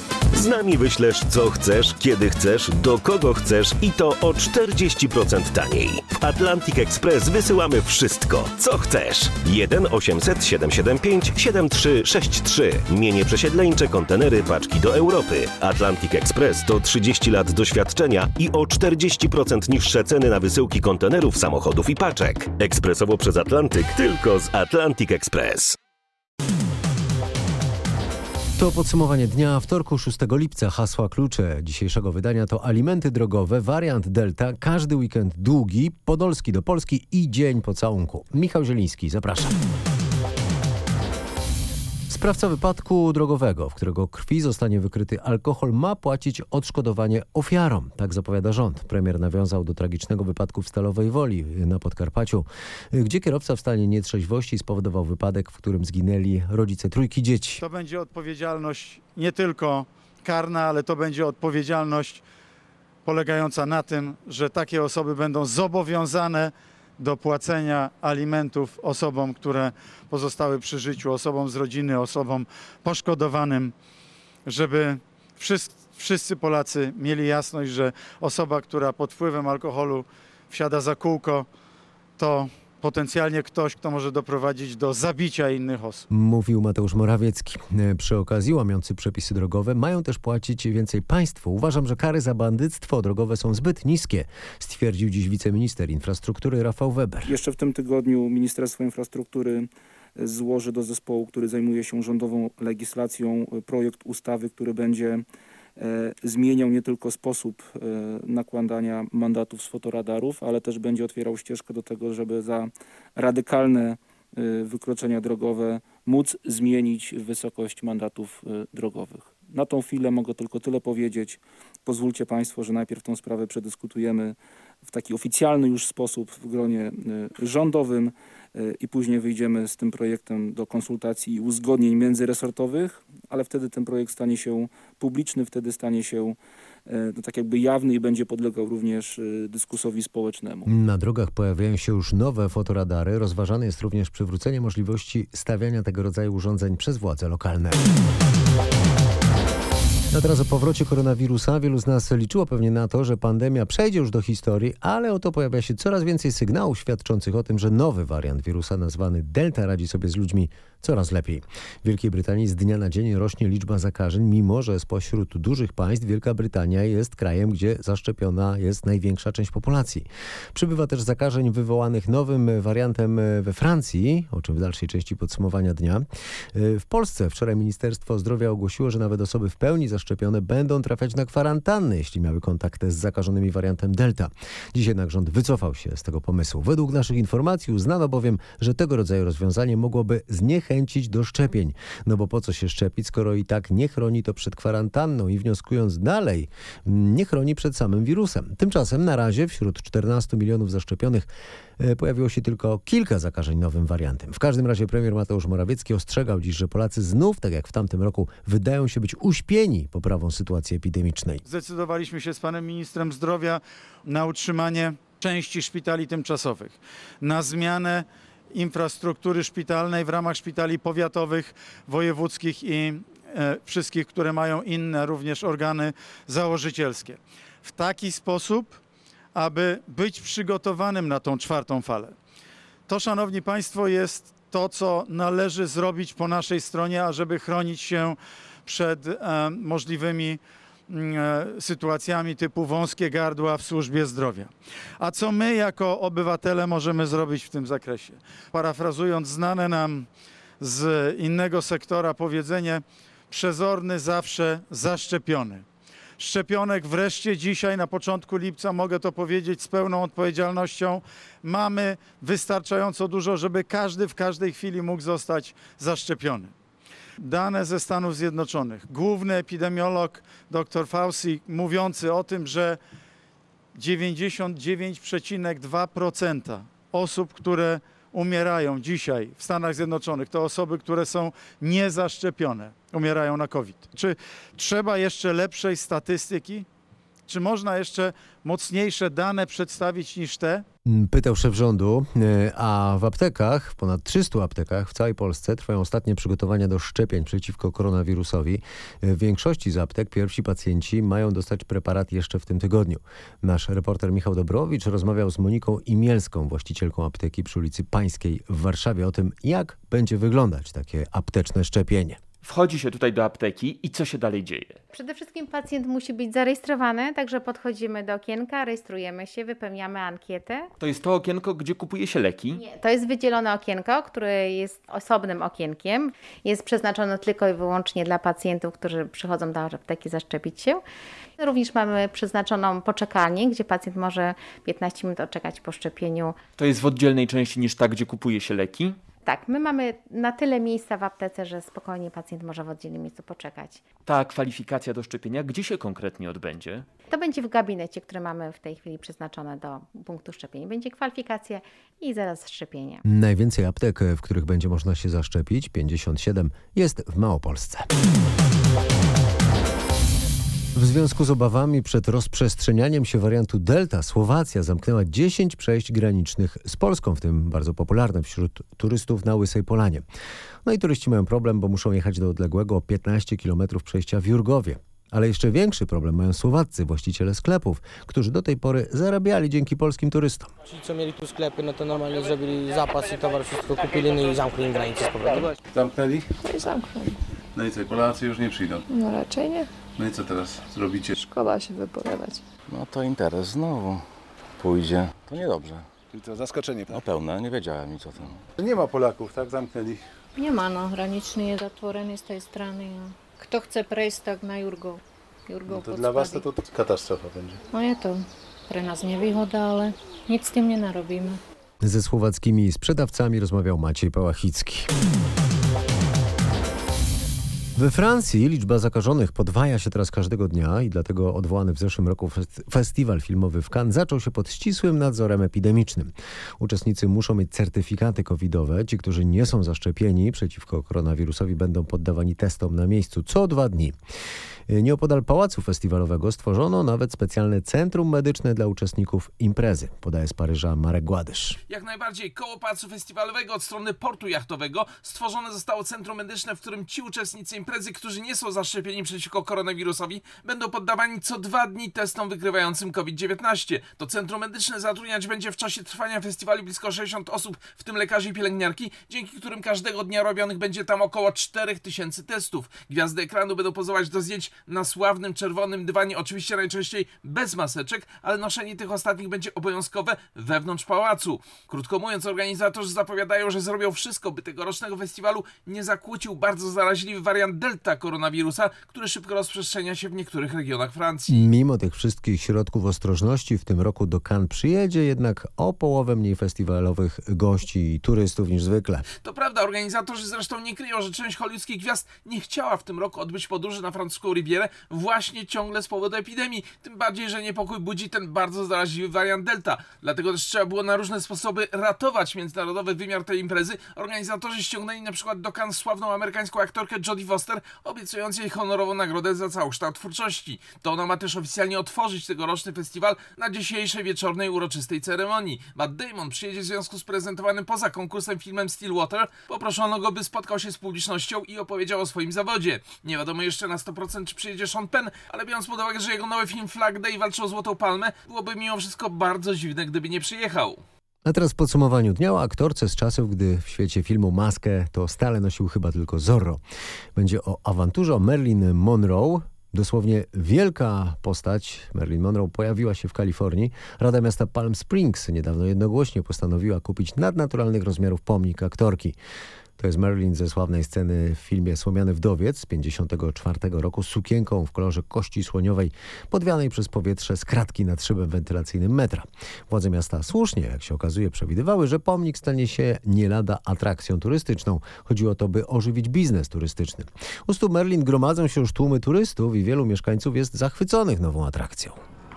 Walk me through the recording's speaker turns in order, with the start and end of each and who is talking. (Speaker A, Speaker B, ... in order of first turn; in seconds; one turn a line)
Speaker A: 0.3-25.8
Speaker B: 28.6-39.5
Speaker B: 42.1-57.6
Speaker C: 57.6-62.2
Speaker C: 63.0-73.7
Speaker C: 74.5-81.5
Speaker C: 82.2-86.1
Speaker B: 86.1-97.4
Speaker D: 97.2-105.2
Speaker D: 105.8-140.7
Speaker B: 140.7-147.9
Speaker B: 150.1-201.3
Speaker B: 201.8-211.4
Speaker C: 211.4-228.8
Speaker C: 229.3-232.1
Speaker C: 232.9-250.1
Speaker C: 250.6-255.7
Speaker C: 256.2-266.5
Speaker C: 267.2-272.8
Speaker C: 273.8-286.7
Speaker C: 287.3-290.6
Speaker B: 290.9-312.2
Speaker E: 312.4-314.8
Speaker F: 314.9-320.7
Speaker E: 320.8-322.6
Speaker F: 322.6-330.8
Speaker F: 331.4-336.4
Speaker E: 336.6-339.0
Speaker F: 339.2-343.8
Speaker E: 344.1-346.9
Speaker F: 347.1-353.0
Speaker B: 353.1-357.9
Speaker B: 360.8-370.0
Speaker B: 370.6-380.5
Speaker G: 380.7-385.6
Speaker H: 385.7-386.3
Speaker I: 386.4-387.2
Speaker H: 387.6-388.8
Speaker I: 388.9-389.7
Speaker H: 390.0-391.1
Speaker I: 391.1-392.4
Speaker J: 392.7-394.0
Speaker J: 394.6-395.9
Speaker H: 396.1-397.0
Speaker J: 396.9-398.4
Speaker H: 398.6-400.0
Speaker K: 400.4-406.4
Speaker H: 405.6-407.6
Speaker K: 407.7-411.4
Speaker B: 411.8-414.9
Speaker B: 417.8-433.9
Speaker B: 434.7-441.6
Speaker L: 441.7-481.5
Speaker B: 481.3-489.1
Speaker L: 489.2-530.8
Speaker B: 531.2-536.6
Speaker B: 537.2-549.2
Speaker B: 549.8-572.0